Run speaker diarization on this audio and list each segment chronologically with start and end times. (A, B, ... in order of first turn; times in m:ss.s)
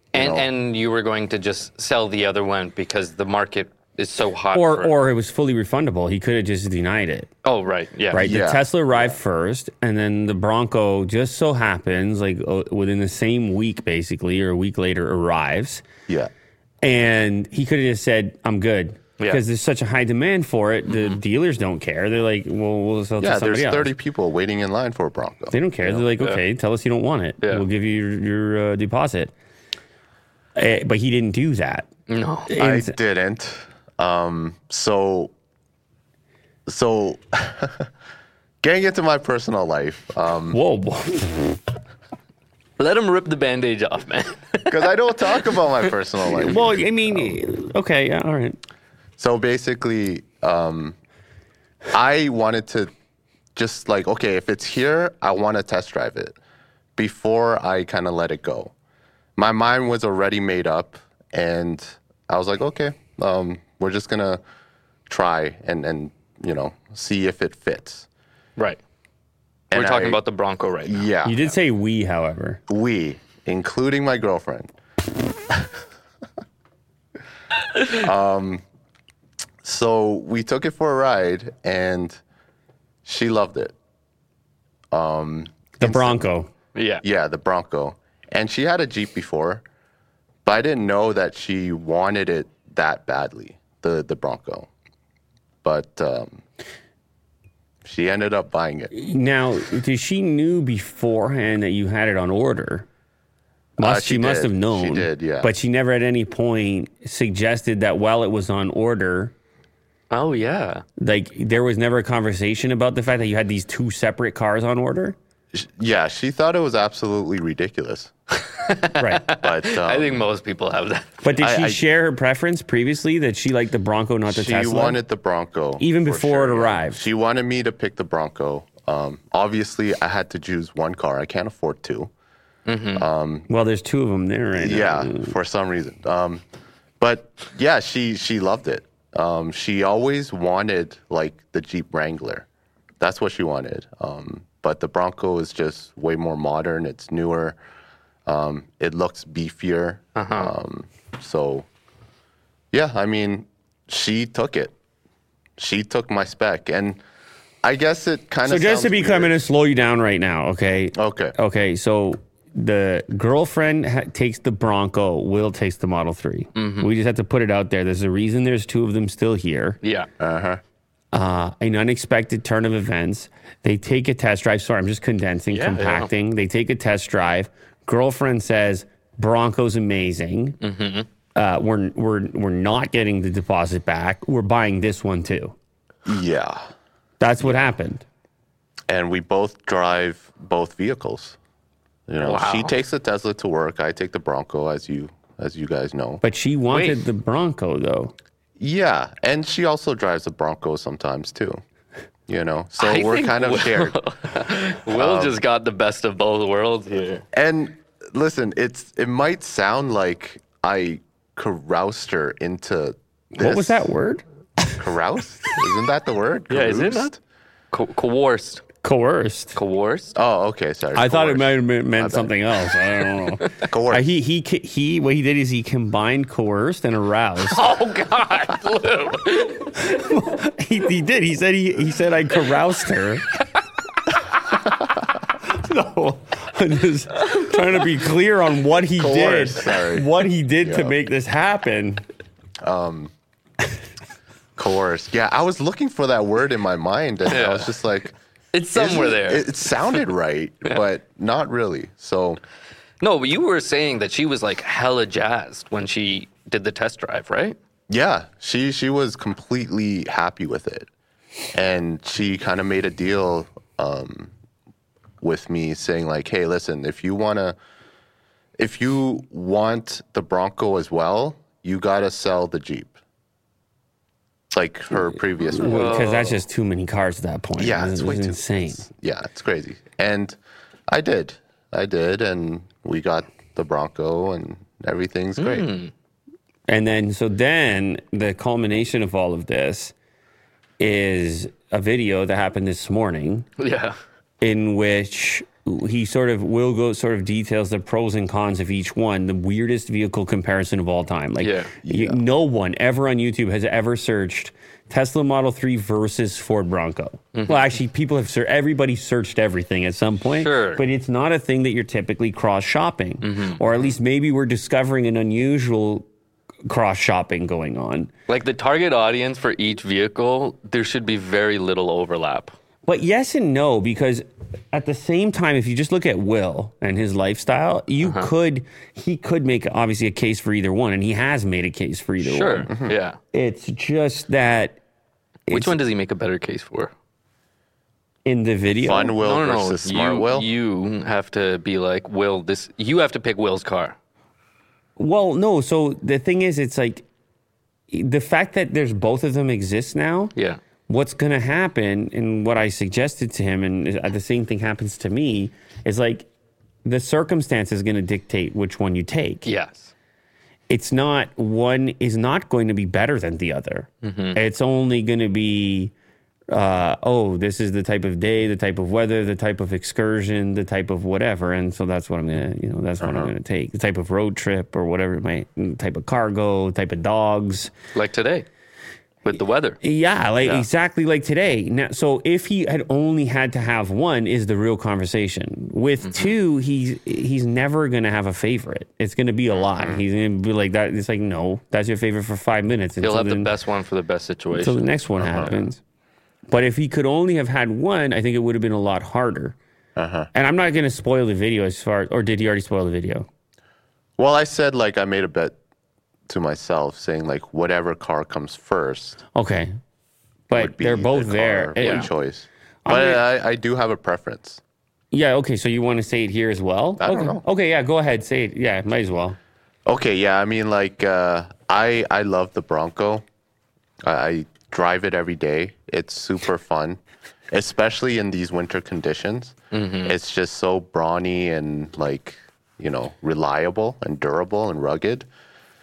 0:00.1-0:00.5 A
0:00.1-0:04.9 B
0:04.5-0:07.3 C
0:07.4-0:08.2 B
0:08.1-0:15.8 C
0:08.2-0:08.7 A
0:16.8-0:23.9 C
0:20.9-0:21.2 B
0:23.2-0:26.1 A
0:25.5-0:29.3 C
0:30.6-0:31.9 C
0:32.1-0:32.5 B
0:32.5-0:33.0 C
0:32.6-0:35.3 A
0:36.7-0:37.9 A
0:38.6-0:40.6 A
0:40.5-0:41.5 C
0:42.8-0:45.6 B
0:44.7-0:46.8 A
0:46.4-0:48.6 C
0:49.2-0:51.0 A
0:51.9-0:52.9 A
0:53.6-0:56.4 A
0:57.0-0:58.7 A
0:59.4-1:04.4 A
1:05.1-1:08.1 A
1:09.7-1:10.2 A
1:09.7-1:11.1 B
1:10.8-1:11.5 A
1:11.2-1:12.6 C
1:12.7-1:14.7 A
1:17.8-1:18.6 A
1:19.6-1:22.2 A
1:23.0-1:23.7 A
1:24.9-1:26.2 A
1:25.8-1:26.5 C
1:26.8-1:27.0 B
1:27.0-1:29.6 A
1:30.4-1:34.7 A
1:35.6-1:36.4 A
1:37.8-1:38.9 A
1:38.9-1:42.9 C
1:43.8-1:49.3 C
1:43.8-1:45.5 A
1:50.1-1:50.8 B
1:51.0-1:55.2 C
1:55.5-1:58.1 A
1:58.4-2:01.3 B
1:59.0-1:59.2 C
1:59.3-2:00.2 A
2:01.2-2:05.0 C
2:01.4-2:01.8 A
2:04.3-2:12.1 A
2:05.8-2:07.0 C
2:12.7-2:13.1 B
2:12.9-2:13.5 A
2:13.5-2:15.3 C
2:14.6-2:16.4 A
2:17.0-2:22.5 A
2:23.0-2:27.6 A
2:28.3-2:31.7 A
2:30.2-2:30.5 B
2:32.7-2:34.7 A
2:35.6-2:37.0 A
2:37.6-2:39.4 A
2:38.4-2:49.8 C
2:41.0-2:41.4 A
2:46.6-2:46.9 B
2:49.8-2:50.1 B
2:50.2-2:50.6 A
2:51.1-3:00.6 C
2:55.5-2:56.1 B
3:00.6-3:01.1 B
3:01.4-3:05.6 C
3:06.1-3:06.7 A
3:07.2-3:08.0 C
3:08.9-3:11.4 A
3:12.1-3:16.2 A
3:12.2-3:12.7 B
3:16.2-3:18.1 C
3:16.7-3:17.0 B
3:18.6-3:21.6 A
3:22.3-3:24.0 A
3:22.8-3:27.2 B
3:24.9-3:25.4 A
3:27.3-3:33.9 A
3:33.4-3:34.8 C
3:34.8-3:37.2 A
3:36.5-3:37.1 B
3:37.7-3:38.6 B
3:38.8-3:39.6 C
3:39.6-3:40.2 B
3:40.2-3:42.3 A
3:40.9-3:47.6 C
3:43.6-3:44.1 A
3:47.5-3:49.8 B
3:49.8-3:53.2 C
3:55.3-4:02.0 C
3:59.0-4:00.1 A
4:00.6-4:01.0 A
4:02.6-4:03.1 A
4:04.6-4:08.1 A
4:07.3-4:07.8 B
4:08.5-4:10.0 B
4:08.7-4:12.4 A
4:13.0-4:17.6 B
4:17.9-4:20.9 A
4:21.5-4:24.3 A
4:25.2-4:27.6 A
4:28.6-4:33.0 A
4:34.5-4:36.2 A
4:35.6-4:36.4 B
4:35.6-4:38.9 C
4:37.6-4:40.4 A
4:40.9-4:45.7 A
4:45.4-4:45.9 B
4:46.7-4:49.9 C
4:50.8-4:53.5 C
4:53.6-4:54.0 B
4:54.4-5:16.1 C
5:01.4-5:01.7 B
5:01.8-5:02.2 A
5:07.4-5:07.7 B
5:10.4-5:10.8 B
5:13.2-5:13.9 B
5:16.7-5:18.1 C
5:18.3-5:22.5 B
5:22.9-5:32.7 C
5:28.0-5:28.3 B
5:32.2-5:33.2 B
5:32.7-5:33.0 A
5:33.3-5:34.8 C
5:35.5-5:35.8 C
5:35.5-5:36.9 B
5:38.2-5:39.2 C
5:38.8-5:40.5 A
5:39.2-5:44.0 B
5:45.0-5:47.1 C
5:47.9-5:50.3 C
5:50.4-5:50.6 B
5:50.9-5:56.3 C
5:56.8-5:59.5 C
5:59.4-5:59.9 B
6:00.7-6:05.9 C
6:04.0-6:04.4 B
6:06.5-6:17.7 C
6:13.0-6:13.3 A
6:17.9-6:18.5 B
6:19.2-6:19.8 B
6:19.8-6:33.5 C
6:26.0-6:26.3 B
6:29.6-6:30.0 A
6:33.0-6:35.6 B
6:34.6-6:35.8 C
6:35.2-6:35.5 A
6:36.5-6:39.6 C
6:40.0-6:40.3 A
6:40.3-6:43.3 C
6:44.2-6:45.6 A
6:46.3-6:49.2 A
6:49.4-6:49.7 C
6:50.5-6:52.1 C
6:50.5-6:54.6 A
6:51.8-6:52.1 B
6:52.8-6:53.2 C
6:55.1-6:59.4 C
6:57.0-6:57.4 A
6:59.9-7:03.2 A
7:04.0-7:07.0 A
7:07.5-7:15.3 A
7:09.7-7:10.2 B